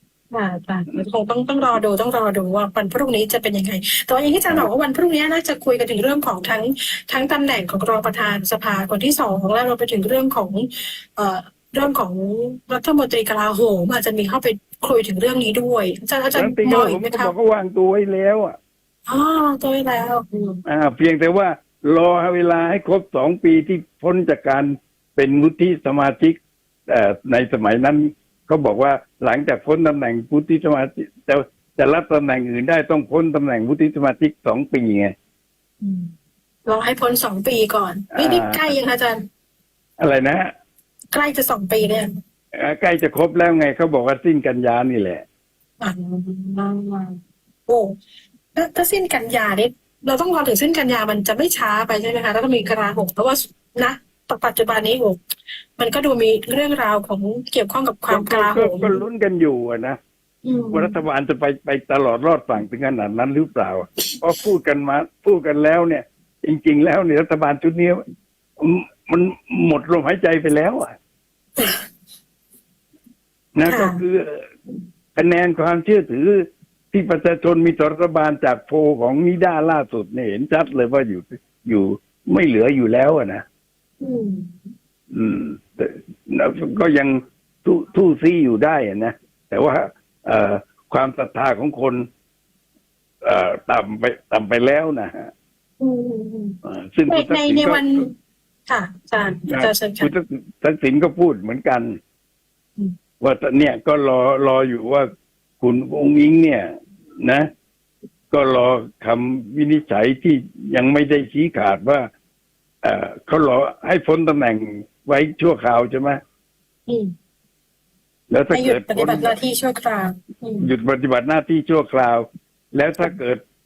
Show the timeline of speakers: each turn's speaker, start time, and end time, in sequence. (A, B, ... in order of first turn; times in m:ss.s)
0:00.3-0:17.3 A
0:16.4-0:18.6 B
0:19.1-0:20.6 A
0:20.7-0:35.1 B
0:35.8-0:36.1 A
0:36.7-0:39.2 A
0:38.1-0:38.7 B
0:40.0-0:40.5 B
0:41.1-0:42.1 A
0:42.6-0:45.2 B
0:45.8-0:48.0 A
0:48.6-0:55.2 A
0:55.8-0:59.0 A
0:58.1-1:00.0 B
1:00.4-1:01.0 A
1:00.7-1:08.0 B
1:08.6-1:11.0 B
1:11.6-1:11.8 A
1:13.6-1:14.4 B
1:13.7-1:14.0 A
1:15.2-1:23.4 B
1:24.0-1:24.5 A
1:25.1-1:32.0 B
1:33.2-1:35.3 B
1:35.8-1:36.6 A
1:36.6-1:38.0 B
1:37.1-1:38.1 A
1:38.7-1:40.1 A
1:39.5-1:42.0 B
1:43.2-1:45.1 B
1:45.6-1:46.7 B
1:47.2-1:47.5 B
1:48.3-1:52.1 B
1:52.8-1:56.2 B
1:56.9-1:57.1 A
1:58.3-1:59.4 B
1:58.5-2:00.7 A
2:00.6-2:03.4 B